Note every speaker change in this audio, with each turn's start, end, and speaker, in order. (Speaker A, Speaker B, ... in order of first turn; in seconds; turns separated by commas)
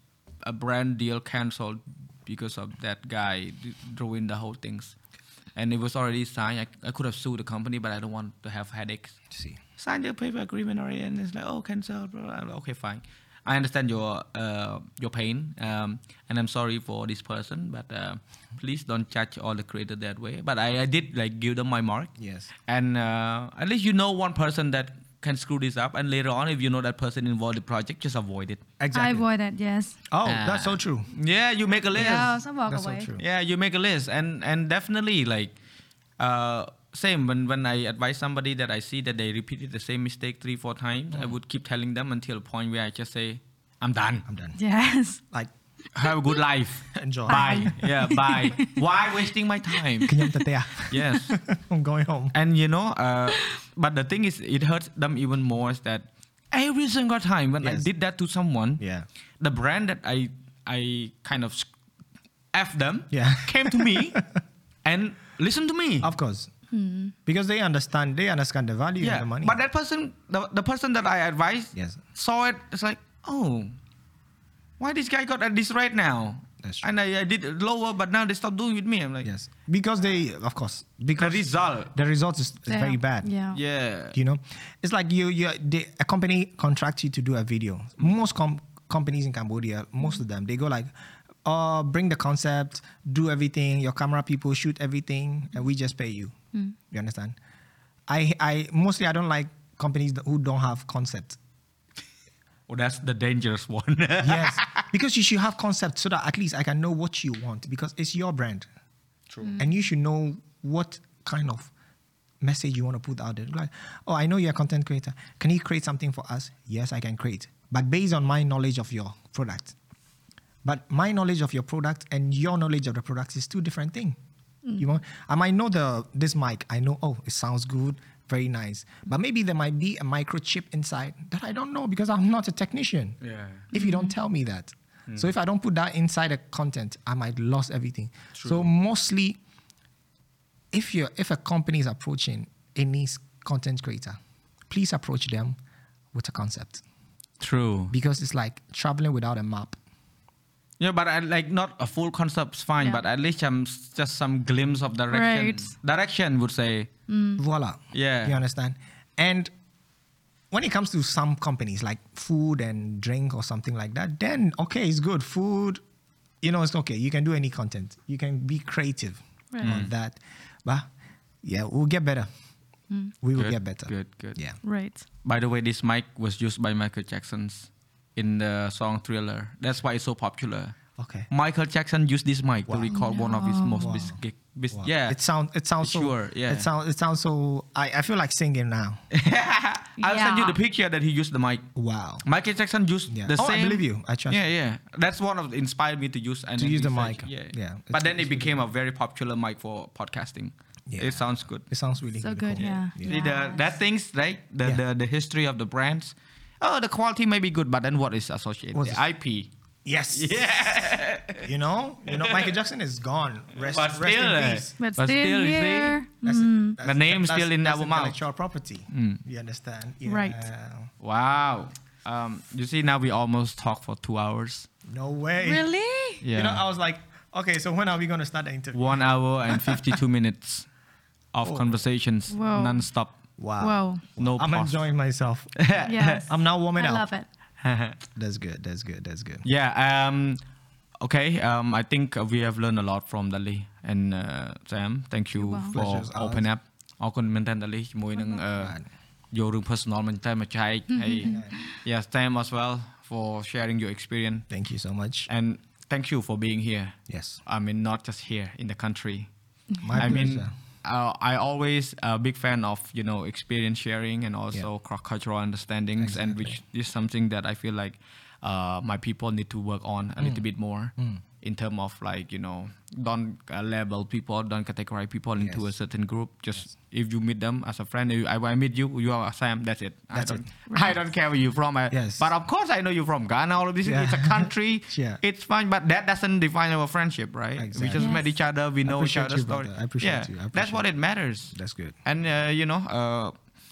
Speaker A: 0.4-4.9, Speaker A: 5.5-9.2, Speaker B: 9.3-9.6, Speaker A: 9.8-22.1, Speaker B: 22.2-22.5, Speaker A: 22.7-28.6, Speaker B: 28.8-29.2, Speaker C: 28.9-30.0, Speaker B: 30.1-31.2, Speaker A: 30.2-32.4, Speaker C: 31.9-33.1, Speaker B: 31.9-33.2, Speaker A: 33.2-35.5, Speaker A: 36.2-44.2, Speaker B: 44.3-44.6, Speaker C: 44.6-45.2, Speaker A: 46.0-50.1, Speaker B: 46.9-47.7, Speaker C: 47.3-48.8, Speaker C: 50.0-50.3, Speaker B: 50.1-52.3, Speaker A: 50.9-51.3, Speaker A: 52.3-58.8, Speaker B: 57.6-57.9, Speaker B: 58.8-59.1, Speaker A: 59.4-61.7, Speaker A: 62.5-64.2, Speaker B: 63.1-64.3, Speaker A: 64.8-66.1, Speaker B: 66.0-66.5, Speaker C: 66.7-67.1, Speaker B: 67.2-69.6, Speaker A: 69.0-73.8, Speaker A: 74.8-79.3, Speaker B: 76.6-76.9, Speaker B: 79.2-83.3, Speaker A: 81.1-81.9, Speaker C: 82.7-83.6, Speaker A: 83.5-84.2, Speaker B: 84.1-90.9, Speaker B: 91.4-96.3, Speaker B: 96.9-97.4, Speaker B: 98.1-101.4, Speaker A: 102.7-104.8, Speaker B: 104.2-108.7, Speaker C: 109.4-109.7, Speaker B: 109.6-111.7, Speaker B: 112.4-119.7, Speaker B: 120.6-124.2, Speaker B: 124.8-133.2, Speaker A: 133.2-133.7, Speaker B: 133.7-139.4, Speaker C: 133.7-134.1, Speaker A: 138.3-138.6, Speaker B: 140.7-145.6, Speaker B: 146.1-146.8, Speaker A: 147.4-147.9, Speaker B: 147.9-149.8, Speaker A: 150.8-156.9, Speaker C: 155.1-155.8, Speaker C: 157.1-157.4, Speaker B: 157.4-159.5, Speaker A: 157.9-158.3, Speaker B: 160.5-165.8, Speaker B: 166.4-170.9, Speaker C: 169.5-169.8, Speaker A: 169.6-169.9, Speaker B: 171.4-172.3, Speaker C: 172.9-173.1, Speaker B: 173.2-174.6, Speaker A: 173.3-174.7, Speaker C: 174.6-175.0, Speaker A: 175.2-180.8, Speaker B: 181.0-181.3, Speaker A: 181.3-185.2, Speaker B: 182.7-183.0, Speaker C: 182.9-184.1, Speaker B: 183.8-184.2, Speaker B: 184.7-189.1, Speaker A: 185.8-186.7, Speaker A: 189.1-191.7, Speaker C: 190.0-190.6, Speaker B: 191.7-192.2, Speaker A: 192.2-201.7, Speaker B: 193.1-194.4, Speaker B: 196.6-198.5, Speaker B: 200.9-203.2, Speaker C: 202.2-203.7, Speaker A: 202.6-209.5, Speaker B: 208.7-209.0, Speaker B: 209.8-214.7, Speaker A: 210.1-211.5, Speaker A: 212.1-212.5, Speaker A: 213.6-216.0, Speaker C: 214.8-216.8, Speaker B: 216.2-220.9, Speaker A: 216.8-218.2, Speaker A: 218.9-219.2, Speaker C: 220.1-220.5, Speaker A: 221.0-224.7, Speaker B: 224.9-225.6, Speaker C: 225.4-226.2, Speaker A: 226.2-226.6, Speaker B: 226.3-228.8, Speaker A: 228.7-230.7, Speaker B: 229.5-229.9, Speaker A: 231.3-233.1, Speaker B: 231.4-231.8, Speaker C: 232.3-232.8, Speaker B: 233.4-235.7, Speaker C: 233.6-234.0, Speaker A: 234.2-234.8, Speaker A: 235.6-236.2, Speaker C: 235.8-237.3, Speaker B: 236.2-237.1, Speaker A: 237.6-238.0, Speaker B: 238.1-239.4, Speaker A: 239.4-240.4, Speaker A: 241.0-248.8, Speaker C: 245.3-245.8, Speaker B: 245.7-246.5, Speaker B: 248.5-248.8, Speaker A: 249.3-254.5, Speaker C: 250.9-251.8, Speaker B: 251.2-251.6, Speaker B: 254.5-255.3, Speaker A: 255.3-259.3, Speaker B: 257.1-257.4, Speaker C: 259.7-260.2, Speaker B: 259.8-260.5, Speaker A: 260.0-293.3, Speaker B: 266.0-266.6, Speaker B: 270.2-270.4, Speaker B: 271.0-271.2, Speaker B: 275.4-275.6, Speaker B: 280.1-280.5, Speaker B: 281.9-282.3, Speaker B: 283.8-285.2, Speaker B: 287.6-288.2, Speaker C: 287.9-288.4, Speaker B: 288.8-290.9, Speaker B: 291.5-291.9